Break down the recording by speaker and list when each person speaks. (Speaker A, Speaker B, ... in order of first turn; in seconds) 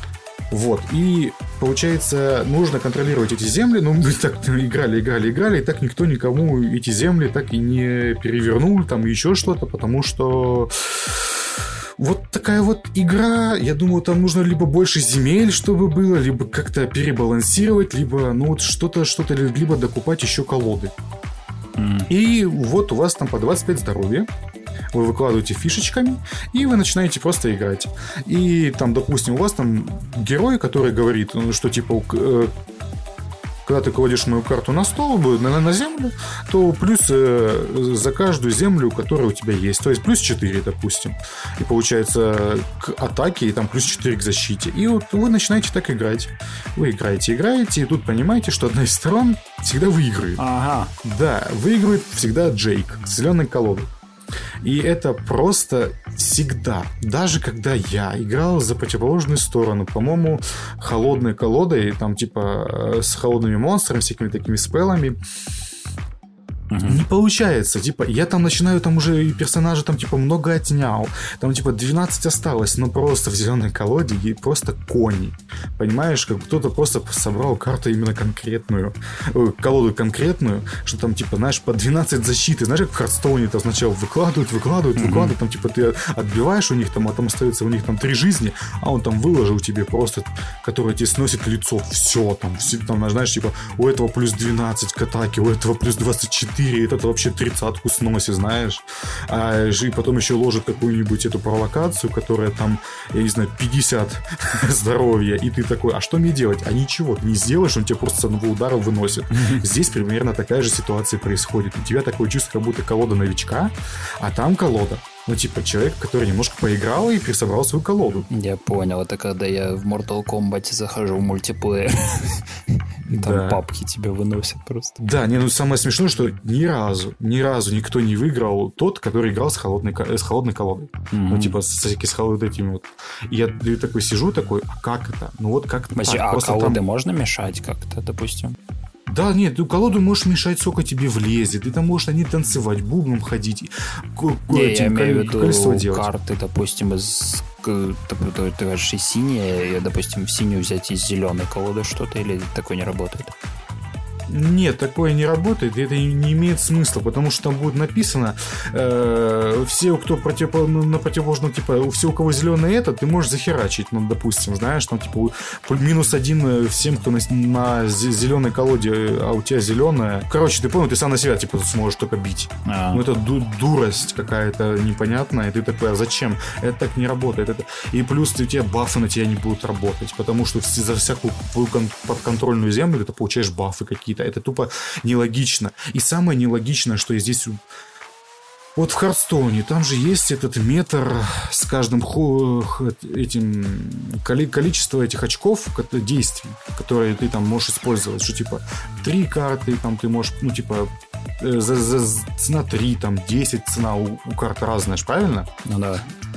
Speaker A: 0.5-11.5, 12.0-20.9, 22.1-24.3, 24.9-32.5, 33.6-50.4, 51.0-53.9, 54.6-65.2, 66.8-118.3, 123.1-123.6, 125.0-136.8, 139.1-146.1, 154.3-187.6, 188.8-205.5
Speaker B: 21.8-22.1, 50.4-50.9, 66.7-67.0, 85.0-85.3, 109.3-109.6, 118.3-125.1, 131.1-131.6, 135.9-138.6, 144.5-153.3, 172.6-173.0, 205.6-206.1